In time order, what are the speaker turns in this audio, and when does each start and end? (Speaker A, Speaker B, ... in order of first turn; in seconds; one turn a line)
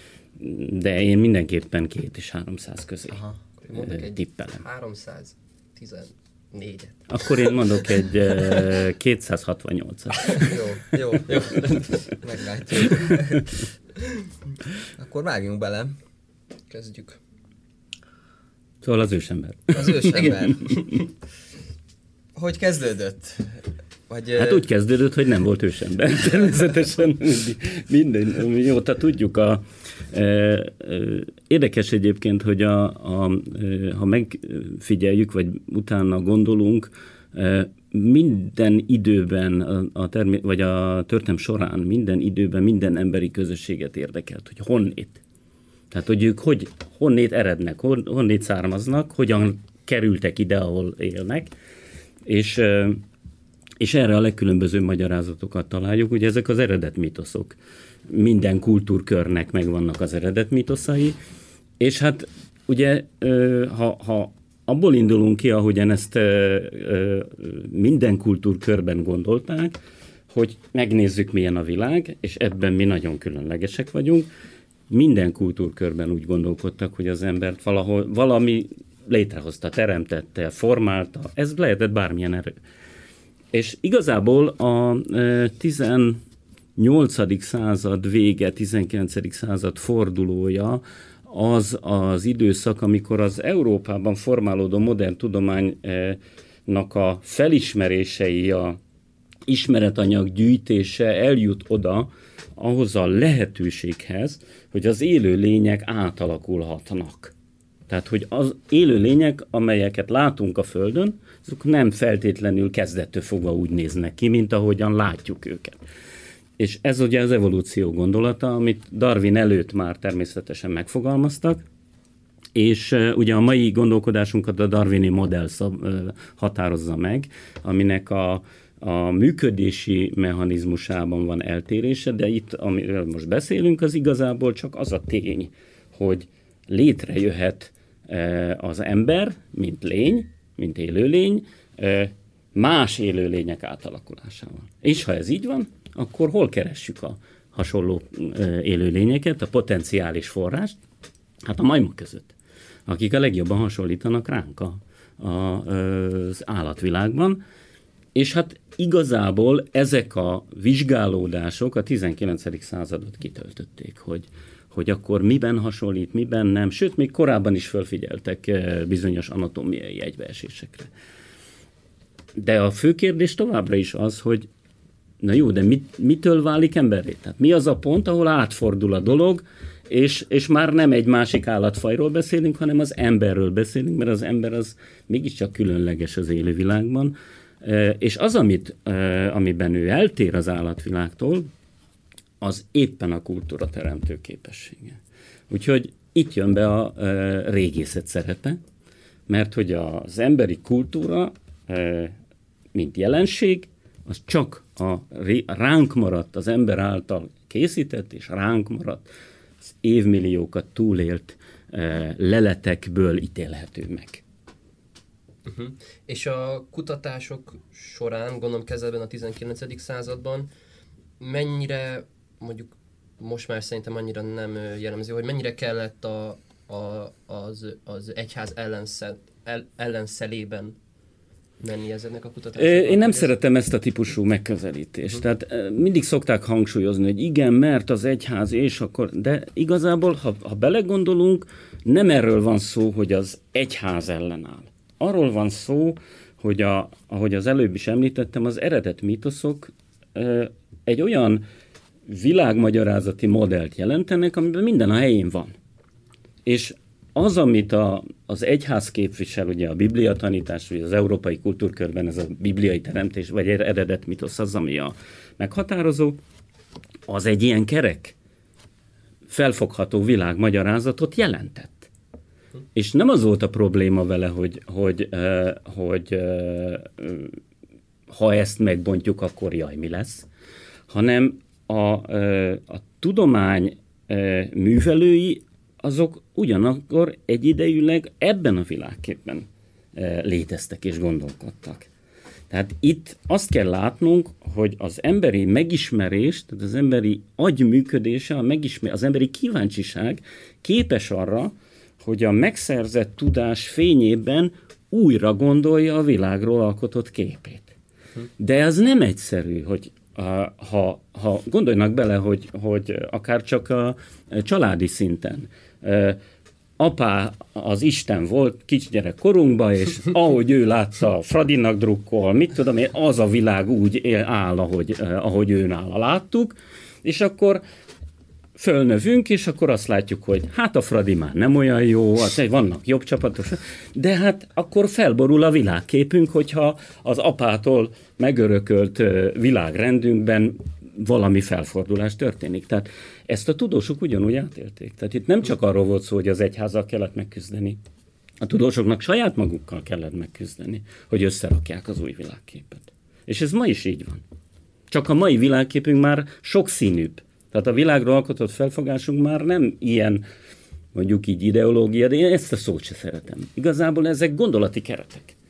Speaker A: 0.4-4.6
Speaker B: 3.6-7.5
Speaker A: 7.1-10.9
Speaker C: 10.3-13.4
Speaker B: 11.3-11.8
Speaker A: 12.8-13.2
Speaker C: 15.0-15.9
Speaker B: 16.7-17.2
Speaker A: 18.8-20.9
Speaker C: 19.7-20.6
Speaker B: 20.1-20.9
Speaker C: 22.3-24.6
Speaker A: 24.4-45.2
Speaker A: 45.9-51.5
Speaker A: 52.2-53.0
Speaker A: 53.8-57.6
Speaker A: 58.1-61.2
Speaker A: 61.8-69.8
Speaker A: 70.3-74.3
Speaker A: 74.9-82.5
Speaker A: 83.5-86.2
Speaker A: 86.8-98.8
Speaker A: 99.5-107.3
Speaker A: 107.9-115.8
Speaker A: 116.6-121.6
Speaker A: 122.5-150.8
Speaker A: 151.4-152.3
Speaker A: 152.8-157.4
Speaker A: 158.1-170.9
Speaker A: 172.3-174.5
Speaker A: 175.2-191.5
Speaker A: 192.4-195.0
Speaker A: 195.5-198.6
Speaker A: 199.3-202.1
Speaker A: 202.7-209.1
Speaker A: 209.6-214.2
Speaker B: 215.4-220.5
Speaker B: 221.2-230.8
Speaker B: 231.6-233.3
Speaker A: 232.6-251.4
Speaker A: 252.1-255.5
Speaker A: 256.4-266.2
Speaker A: 267.1-268.1
Speaker A: 269.3-271.9
Speaker A: 272.7-277.4
Speaker A: 278.1-280.3
Speaker A: 280.9-291.9
Speaker A: 292.5-307.7
Speaker A: 308.4-316.2
Speaker A: 316.8-327.6
Speaker A: 328.6-347.8
Speaker A: 348.4-354.2
Speaker A: 354.9-360.2
Speaker A: 360.9-365.3